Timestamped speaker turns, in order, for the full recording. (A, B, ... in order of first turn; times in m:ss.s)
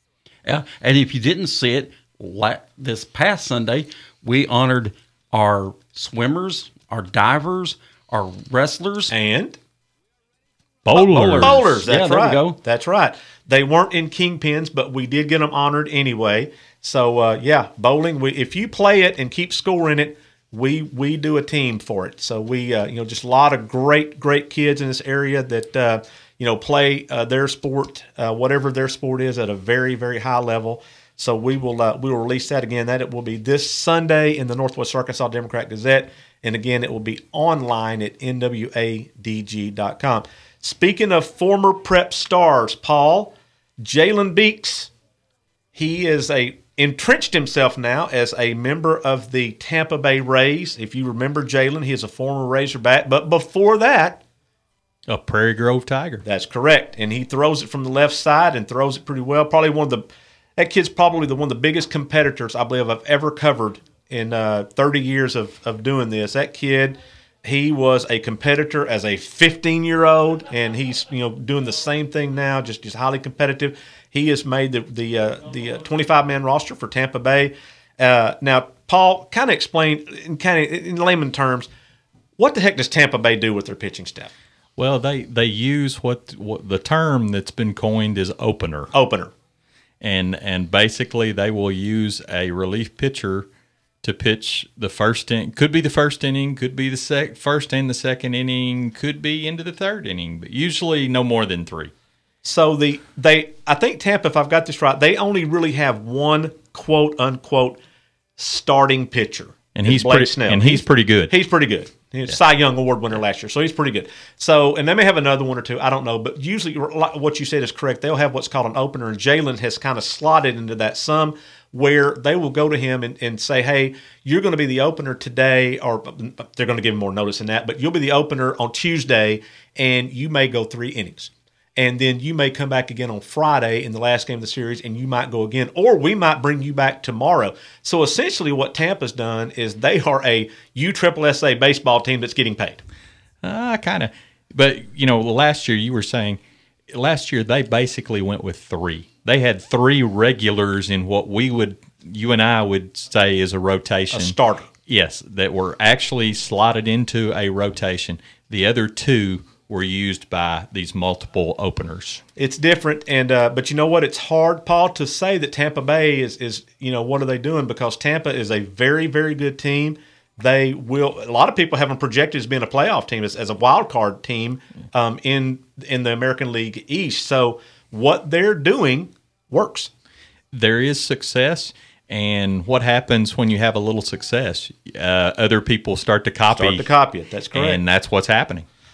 0:00.4-0:09.1 A
0:09.1-0:09.6 B
0:10.9-0:44.9 B
0:10.9-0:11.6 C
0:11.0-0:12.6 A
0:45.7-0:54.2 B
0:55.1-0:56.2 C
0:56.2-1:00.0 B
1:00.6-1:21.7 B
1:22.4-1:24.3 B
1:24.8-1:28.9 C
1:28.9-1:29.3 B
1:30.0-1:33.5 C
1:34.0-1:41.9 C
1:42.4-1:47.8 B
1:48.4-2:22.8 B
1:49.8-1:51.3 C
2:23.4-2:26.4 C
2:26.9-2:42.2 C
2:34.1-2:34.7 B
2:42.4-2:59.9 B
3:00.5-3:06.8 C
3:06.5-3:07.8 B
3:07.5-3:08.6 C